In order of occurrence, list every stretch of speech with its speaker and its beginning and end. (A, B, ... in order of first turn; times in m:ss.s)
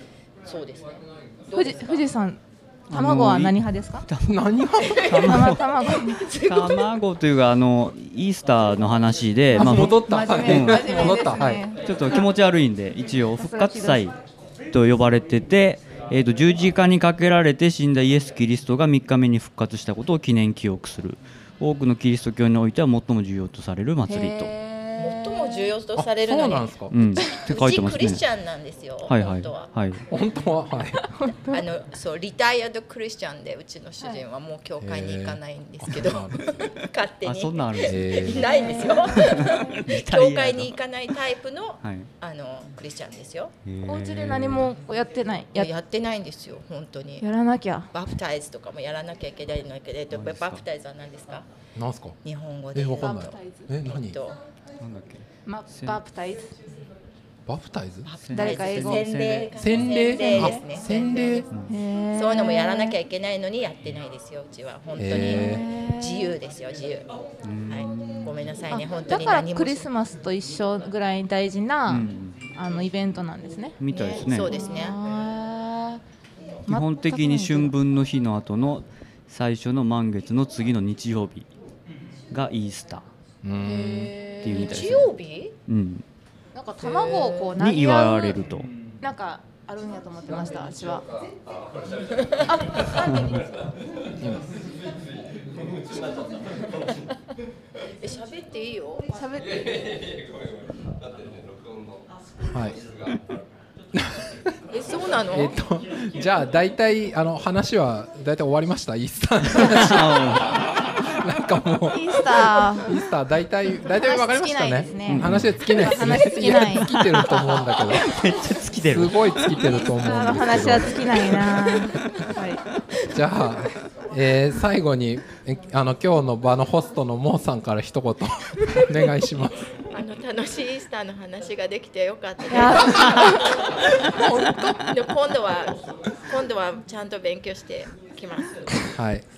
0:00.4-0:01.9 A
0:01.5-0:04.1 B
0:02.9-0:04.3 C
0:04.2-0:05.2 D
0:04.8-0:06.9 A
0:05.1-0:05.6 C
0:05.2-0:06.2 B
0:06.4-0:10.9 C
0:09.5-0:11.9 B
0:09.6-0:11.6 D
0:11.8-0:14.2 C
0:13.4-0:14.1 B
0:14.7-0:24.5 C
0:24.0-0:25.7 B
0:25.0-0:26.7 A
0:26.0-0:27.1 D
0:26.9-0:28.2 C
0:27.2-0:27.4 B
0:27.4-0:29.7 A
0:29.1-0:30.0 C
0:30.1-0:31.0 D
0:31.1-0:31.6 B
0:31.5-0:43.5 A
0:34.8-0:36.7 D
0:37.2-0:38.3 C
0:37.8-0:38.5 D
0:38.4-0:39.8 B
0:39.2-0:40.8 C
0:41.8-0:42.1 C
0:43.6-0:44.7 C
0:43.8-0:45.7 B
0:45.6-0:47.2 A
0:47.2-0:47.9 B
0:47.9-0:51.5 A
0:50.1-0:50.6 C
0:51.8-0:52.2 D
0:52.2-0:54.4 A
0:52.8-0:54.2 D
0:53.2-0:53.7 B
0:54.8-0:56.0 C
0:55.5-0:56.5 B
0:57.5-0:58.1 D
0:58.0-1:01.5 A
0:58.2-0:59.5 C
0:58.3-0:59.0 B
0:59.6-1:01.5 D
1:00.0-1:00.6 B
1:01.7-1:03.0 B
1:02.1-1:07.1 A
1:05.0-1:05.6 D
1:05.1-1:06.4 B
1:07.4-1:08.4 C
1:07.7-1:09.9 A
1:08.7-1:13.8 B
1:11.9-1:12.4 C
1:13.8-1:14.6 C
1:13.9-1:15.0 A
1:14.3-1:16.0 B
1:16.7-1:21.5 C
1:16.7-1:17.7 B
1:22.3-1:23.1 C
1:23.4-1:24.1 D
1:23.6-1:25.6 A
1:24.4-1:25.2 C
1:25.7-1:26.0 C
1:26.5-1:28.4 B
1:26.8-1:27.6 A
1:27.6-1:28.7 C
1:29.0-1:31.1 B
1:32.5-1:33.4 B
1:38.0-1:39.1 A
1:39.1-1:39.7 B
1:42.5-1:42.8 D
1:43.9-1:44.5 D
1:44.7-1:45.6 A
1:45.3-1:58.1 D
1:49.6-1:50.5 C
1:51.9-1:52.9 B
1:53.9-1:57.7 B
1:55.1-1:55.6 C
1:56.7-1:57.1 C
1:58.0-1:59.2 C
1:58.8-2:01.8 D
1:59.9-2:02.6 B
2:03.1-2:09.6 D
2:09.9-2:18.7 A
2:12.5-2:13.5 B
2:14.2-2:14.8 B
2:14.2-2:14.8 D
2:18.9-2:19.3 D